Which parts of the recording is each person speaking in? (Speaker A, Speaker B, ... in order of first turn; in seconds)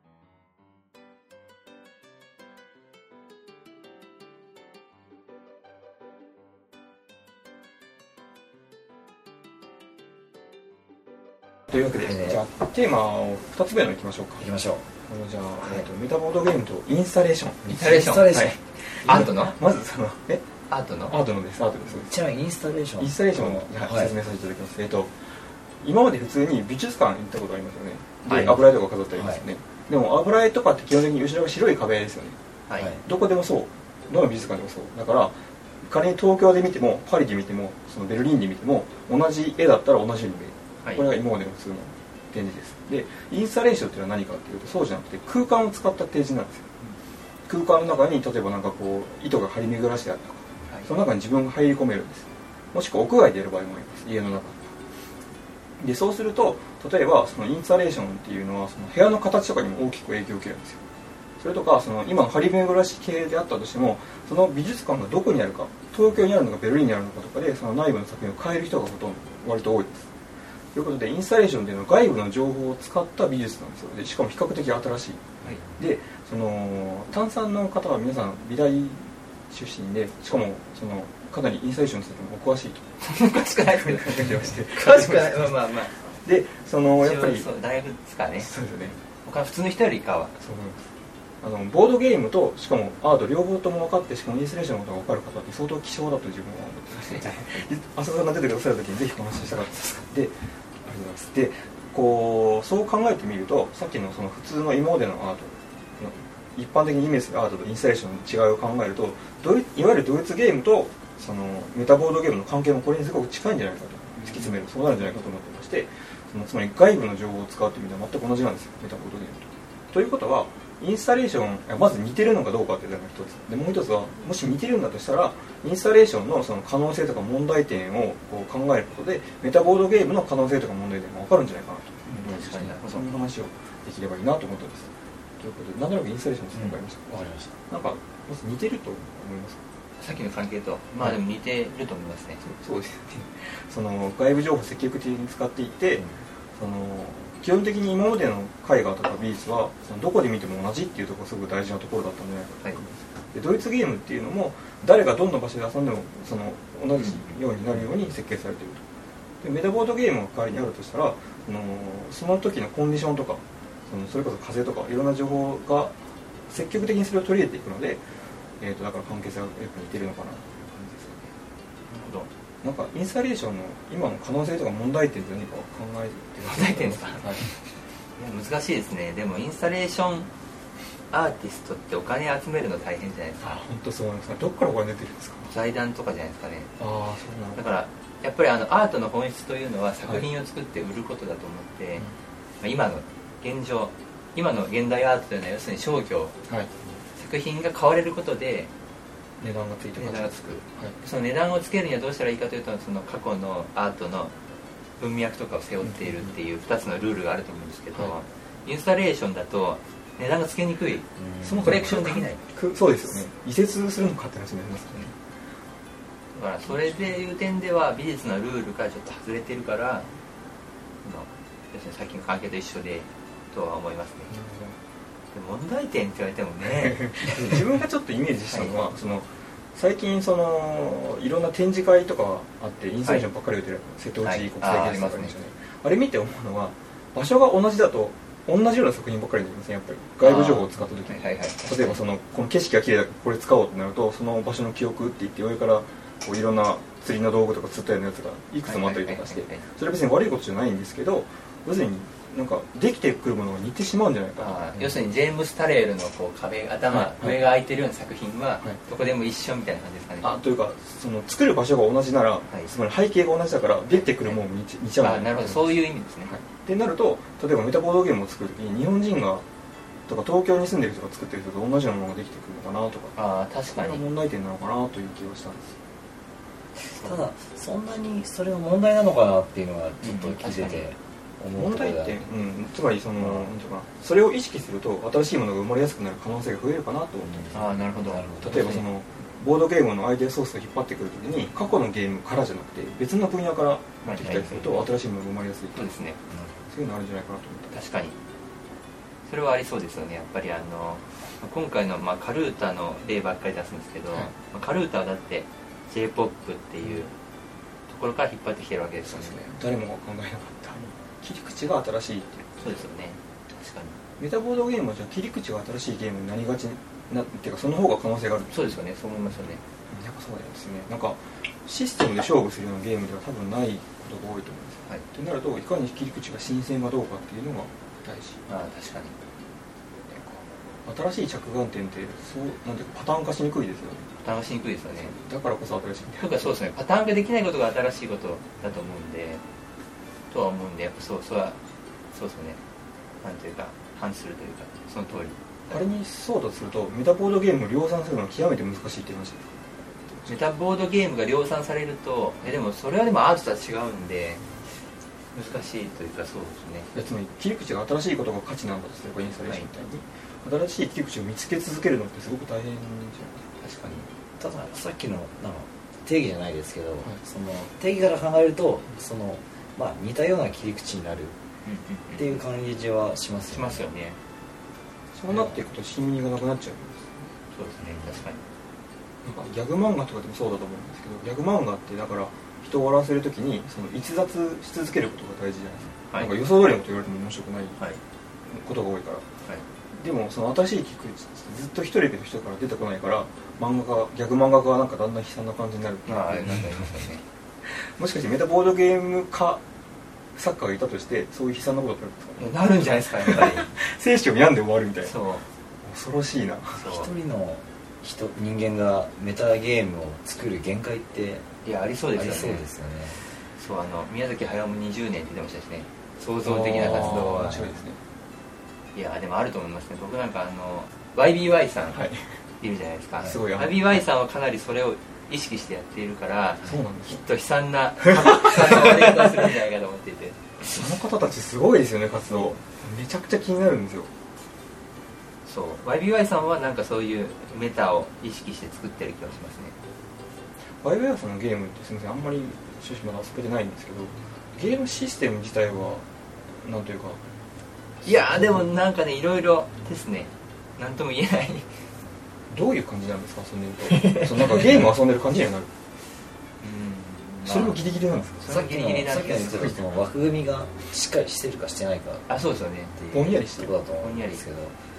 Speaker A: 11.7-14.4, 15.1-20.4, 21.1-22.1, 23.0-32.4, 33.0-46.7, 47.5-54.7, 55.8-60.8, 61.4-70.1, 70.7-82.9, 83.7-87.5, 88.4-89.0, 90.4-90.8, 91.4-139.6, 142.4-146.0, 146.6-158.8, 159.4-166.0, 166.5-168.0, 168.6-171.3, 172.6-177.5, 183.4-185.5, 186.8-187.6, 196.5-196.7, 199.4-201.0, 205.8-206.3, 211.4-215.1, 216.7-217.1, 224.3-224.8, 226.6-254.9, 256.9-257.4, 260.2-269.4, 270.1-273.2, 273.7-275.8, 281.5-287.6, 288.4-295.9, 296.7-297.7, 309.1-312.9, 314.2-318.7, 319.3-328.4, 330.1-334.1, 334.9-336.5, 345.7-350.3, 356.9-363.5, 375.1-377.3, 379.2-387.8, 388.5-389.2, 389.9-396.9, 397.6-399.6, 400.4-405.2, 405.8-406.8, 416.4-418.0, 421.9-422.2, 423.2-423.9, 426.6-427.2, 428.1-429.3, 430.6-434.1, 440.8-446.0, 446.6-447.2, 448.1-448.6, 452.5-455.7, 457.4-458.5, 459.5-459.8, 463.1-463.7
Speaker B: 11.9-12.4, 14.4-14.8, 17.7-19.3, 21.9-24.1, 28.3-28.6, 29.1-29.4, 32.8-33.0, 136.5-137.5, 211.2-212.0, 276.8-282.2, 287.2-288.8, 296.3-296.6, 364.4-371.4, 372.1-373.9, 377.8-378.2, 406.8-411.4, 412.1-413.2, 454.0-454.8, 458.4-462.3, 463.1-464.7
Speaker C: 17.7-19.5, 20.7-21.1, 83.0-85.9, 87.0-88.5, 89.2-90.3, 97.0-97.7, 132.1-133.1, 140.0-142.4, 157.0-157.2, 171.9-172.3, 176.5-177.4, 178.2-180.3, 181.1-183.6, 185.5-186.7, 187.6-192.0, 192.6-196.3, 197.2-198.7, 200.0-204.3, 205.0-211.1, 211.6-212.4, 216.3-220.1, 221.0-224.3, 225.3-227.3, 228.5-228.7, 234.2-235.3, 240.2-242.0, 248.7-249.6, 254.4-260.3, 265.0-266.3, 273.2-274.0, 280.0-280.9, 287.5-288.9, 294.0-294.9, 295.7-296.2, 297.7-298.1, 299.2-307.1, 307.9-309.5, 312.6-314.0, 318.5-319.6, 328.5-329.2, 334.2-335.1, 336.2-339.4, 340.3-341.6, 342.1-342.6, 343.2-345.8, 350.3-354.4, 355.3-356.9, 363.6-364.1, 371.6-372.4, 373.5-374.2, 377.5-378.4, 396.1-397.2, 402.4-403.7, 405.0-405.4, 406.7-407.1, 411.6-412.6, 413.6-417.7, 418.9-422.0, 422.6-430.8, 435.4-439.7, 448.0-451.6, 456.6-457.9, 458.4-459.8, 462.3-463.4, 464.0-464.4